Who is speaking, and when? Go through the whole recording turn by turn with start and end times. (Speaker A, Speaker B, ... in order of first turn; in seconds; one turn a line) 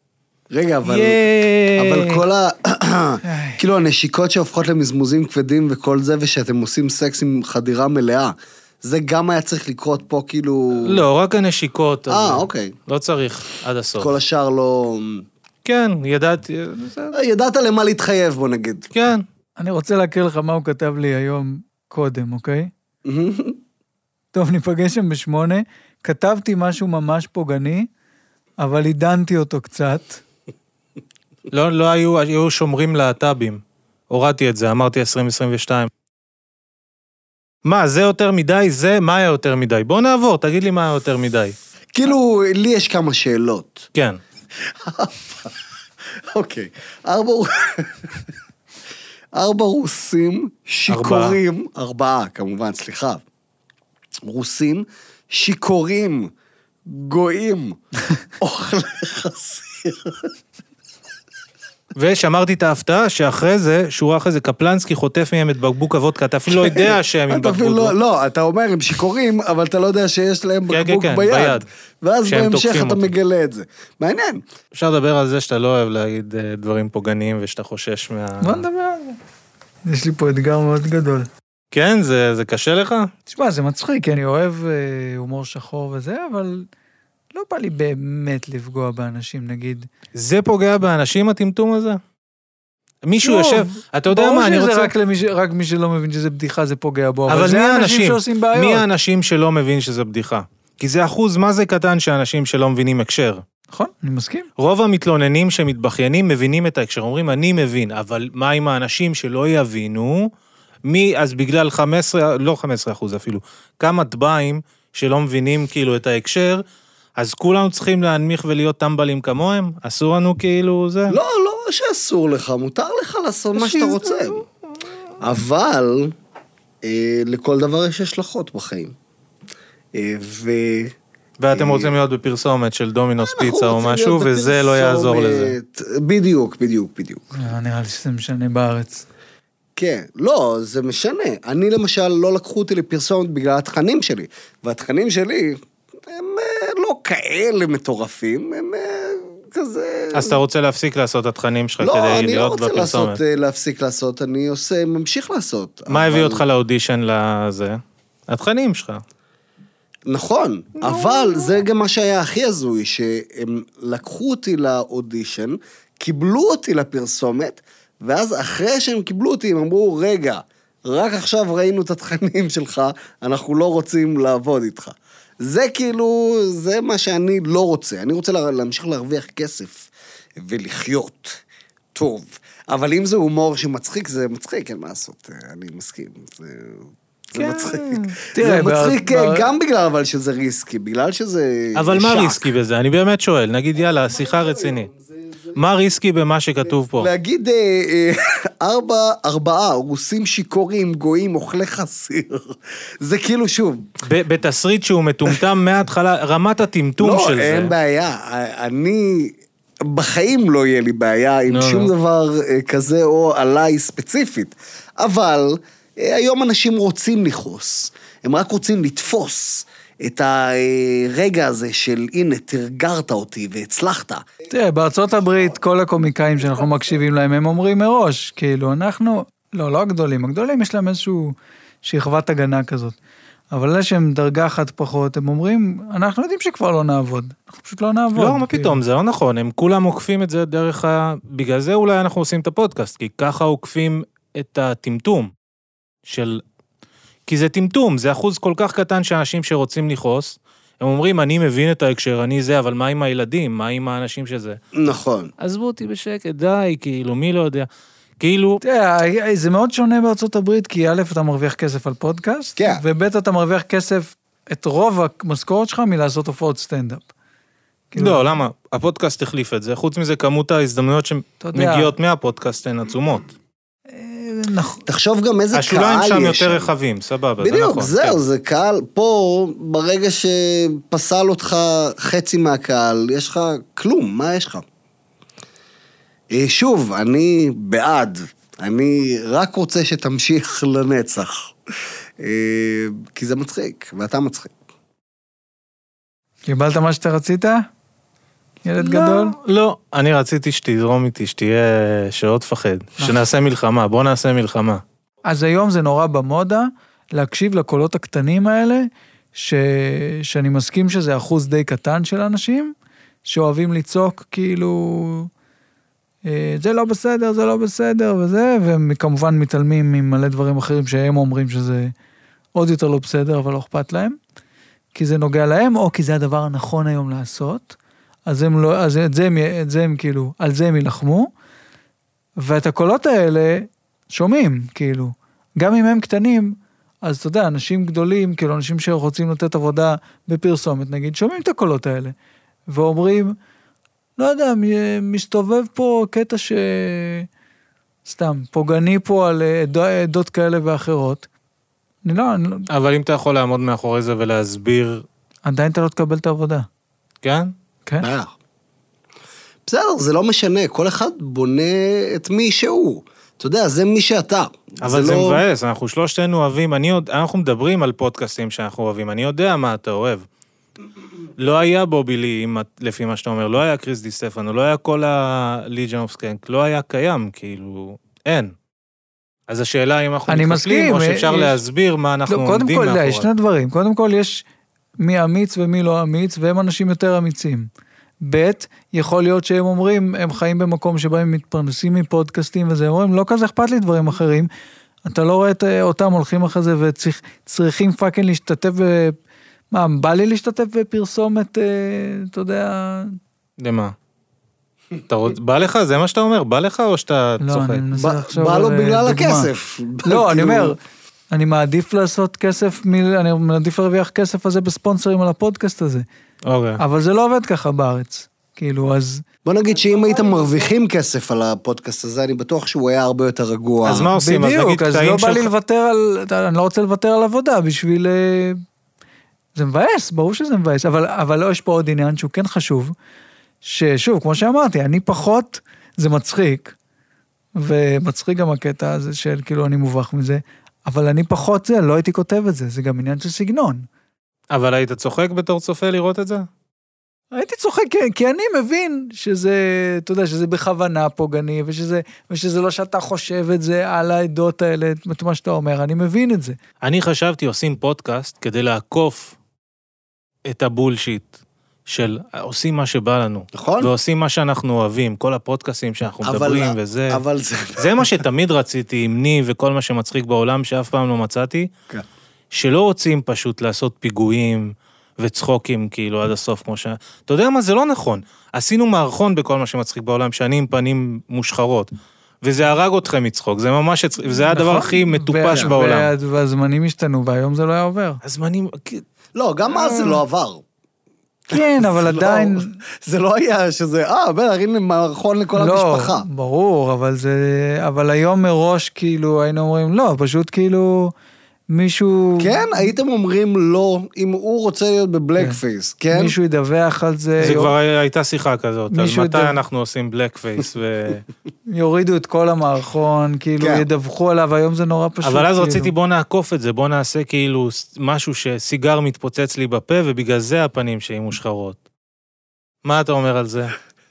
Speaker A: 0.5-1.2
Speaker B: 0.8-2.2
Speaker A: 1.8-11.0
Speaker C: 3.2-3.6
Speaker B: 10.8-14.1
Speaker A: 12.1-12.7
Speaker A: 14.0-15.2
Speaker B: 15.6-17.1
Speaker A: 17.1-18.9
Speaker B: 18.9-19.2
Speaker C: 19.6-22.7
Speaker A: 23.0-23.6
Speaker C: 24.3-27.9
Speaker C: 28.6-30.2
Speaker B: 31.5-35.9
Speaker B: 37.6-41.5
Speaker A: 41.9-43.9
Speaker A: 44.6-45.5
Speaker A: 46.3-48.2
Speaker A: 49.3-53.2
Speaker B: 50.9-51.4
Speaker A: 54.2-56.3
Speaker A: 56.8-57.8
Speaker A: 58.4-60.3
Speaker B: 62.0-67.9
Speaker A: 66.5-74.4
Speaker B: 70.7-71.7
Speaker B: 72.2-73.1
Speaker B: 74.7-78.6
Speaker C: 78.4-79.2
Speaker C: 79.8-81.3
Speaker B: 81.7-83.1
Speaker C: 83.3-86.7
Speaker C: 87.3-89.9
Speaker B: 90.1-92.0
Speaker B: 93.0-94.9
Speaker C: 93.2-98.8
Speaker B: 97.3-103.4
Speaker C: 103.7-104.5
Speaker B: 104.6-110.3
Speaker B: 110.8-116.6
Speaker B: 117.2-121.2
Speaker A: 121.1-124.4
Speaker B: 123.6-124.3
Speaker A: 125.2-126.1
Speaker A: 126.8-128.9
Speaker A: 129.9-130.9
Speaker B: 131.4-135.5
Speaker A: 131.5-131.9
Speaker A: 133.2-137.2
Speaker C: 137.3-139.0
Speaker A: 139.8-150.4
Speaker B: 150.1-153.2
Speaker A: 151.8-156.4
Speaker B: 155.9-159.0
Speaker A: 160.1-181.4
Speaker A: 181.9-192.5
Speaker B: 187.3-188.1
Speaker C: 188.3-189.5
Speaker B: 191.7-194.9
Speaker A: 193.9-195.6
Speaker B: 195.5-197.1
Speaker A: 196.9-203.9
Speaker B: 204.0-207.7
Speaker A: 207.0-224.2
Speaker B: 211.5-211.9
Speaker C: 224.5-233.0
Speaker C: 233.5-238.8
Speaker B: 238.1-245.3
Speaker B: 246.1-246.4
Speaker B: 247.3-254.6
Speaker A: 254.7-255.3
Speaker B: 255.4-257.7
Speaker B: 258.2-258.6
Speaker C: 258.6-267.1
Speaker A: 262.6-262.8
Speaker C: 267.9-268.2
Speaker B: 268.0-273.3
Speaker C: 271.4-271.9
Speaker C: 273.9-274.8
Speaker A: 274.9-276.7
Speaker B: 275.5-278.2
Speaker A: 277.4-284.6
Speaker A: 286.3-291.5
Speaker A: 292.2-294.5
Speaker C: 296.4-297.7
Speaker C: 298.6-299.3
Speaker B: 298.8-304.8
Speaker C: 305.2-312.7
Speaker C: 313.2-315.3
Speaker C: 316.2-321.9
Speaker C: 322.5-324.2
Speaker C: 324.9-331.3
Speaker C: 332.4-342.1
Speaker C: 342.7-343.4
Speaker C: 344.2-347.3
Speaker C: 348.0-351.3
Speaker C: 352.0-352.7
Speaker B: 352.7-355.0
Speaker C: 355.4-356.7
Speaker B: 357.2-357.5
Speaker A: 358.0-358.3
Speaker A: 359.6-365.4
Speaker B: 364.8-370.2
Speaker B: 371.4-378.5
Speaker B: 379.5-383.3
Speaker C: 380.3-381.6
Speaker C: 382.3-384.4
Speaker C: 385.0-387.7
Speaker C: 388.2-394.5
Speaker C: 395.0-399.1
Speaker C: 399.7-403.2
Speaker B: 403.6-403.9
Speaker B: 405.1-407.8
Speaker C: 407.4-409.5
Speaker A: 407.9-410.8
Speaker C: 410.0-410.8
Speaker C: 411.3-416.1
Speaker B: 416.4-416.8
Speaker C: 416.8-419.2
Speaker A: 419.4-424.1
Speaker B: 423.8-425.5
Speaker C: 424.1-428.6
Speaker C: 429.5-432.9
Speaker C: 433.6-436.7
Speaker C: 437.6-443.9
Speaker B: 444.5-446.5
Speaker C: 447.3-456.6
Speaker B: 456.8-459.4
Speaker B: 460.4-461.3
Speaker B: 461.9-467.2
Speaker A: 463.5-463.9
Speaker A: 466.2-468.1
Speaker B: 467.8-471.7
Speaker B: 472.5-481.9
Speaker B: 482.4-486.1
Speaker C: 484.5-488.2
Speaker B: 488.2-489.0
Speaker A: 489.4-490.6
Speaker C: 491.5-492.8
Speaker A: 491.5-496.2
Speaker C: 495.6-501.1
Speaker C: 501.7-502.8
Speaker A: 502.4-506.3
Speaker C: 506.1-507.7
Speaker B: 507.4-511.2
Speaker C: 508.9-509.6
Speaker C: 511.7-515.9
Speaker A: 513.6-513.9
Speaker B: 515.2-521.8
Speaker B: 522.8-523.7